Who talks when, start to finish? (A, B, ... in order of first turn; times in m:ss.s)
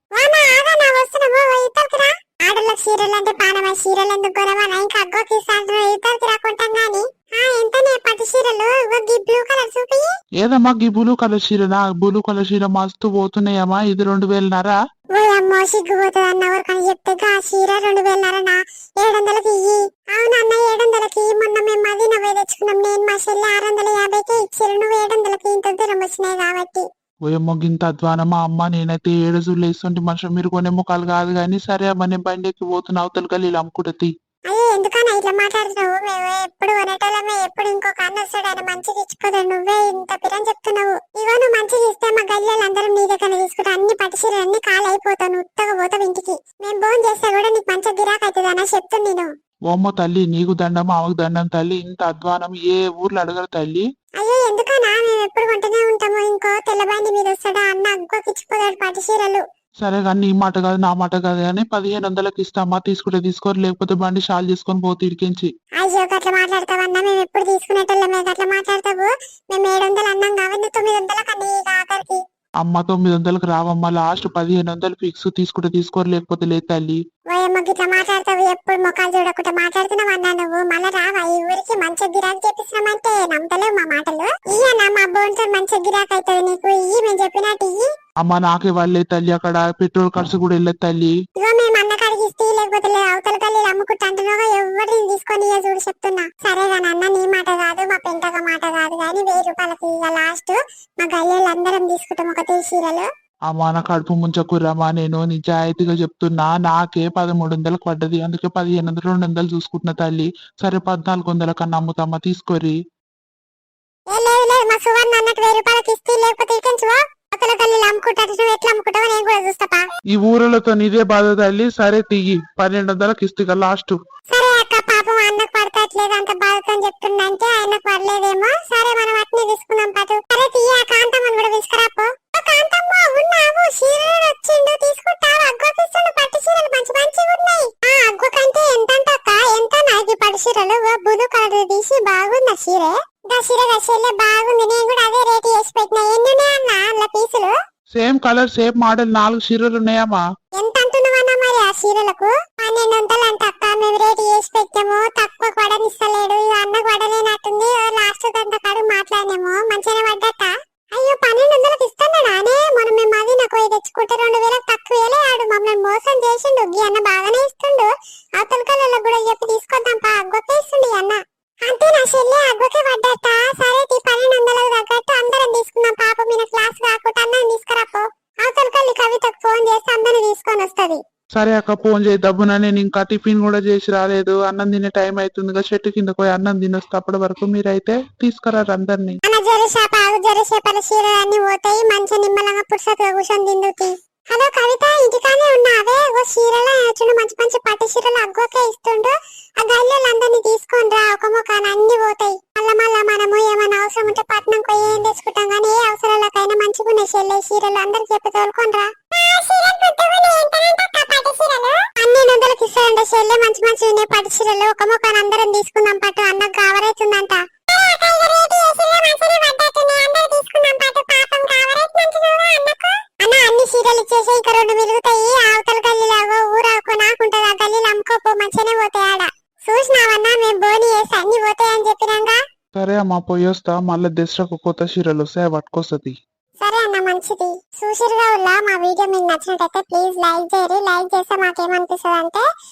0:00.2-0:10.1 A
0:10.4-0:14.8 B
0:15.1-0:26.9 A
0:27.3-0:34.1 B
0:34.5-0:49.3 A
0:49.7-0:53.9 B
0:54.2-0:59.4 A
0:59.8-1:05.5 B
1:05.8-1:12.2 A
1:12.6-1:17.0 B
1:17.3-1:27.9 A
1:28.2-1:31.2 B
1:31.4-1:43.1 A
1:43.5-1:52.8 B
1:54.1-1:59.9 A
2:00.1-2:04.0 B
2:04.3-2:27.6 A
2:28.0-2:30.2 B
2:30.6-3:01.0 A
3:01.4-3:09.2 B
3:09.2-3:52.4 A
3:52.8-3:56.2 B
3:56.6-4:02.5 A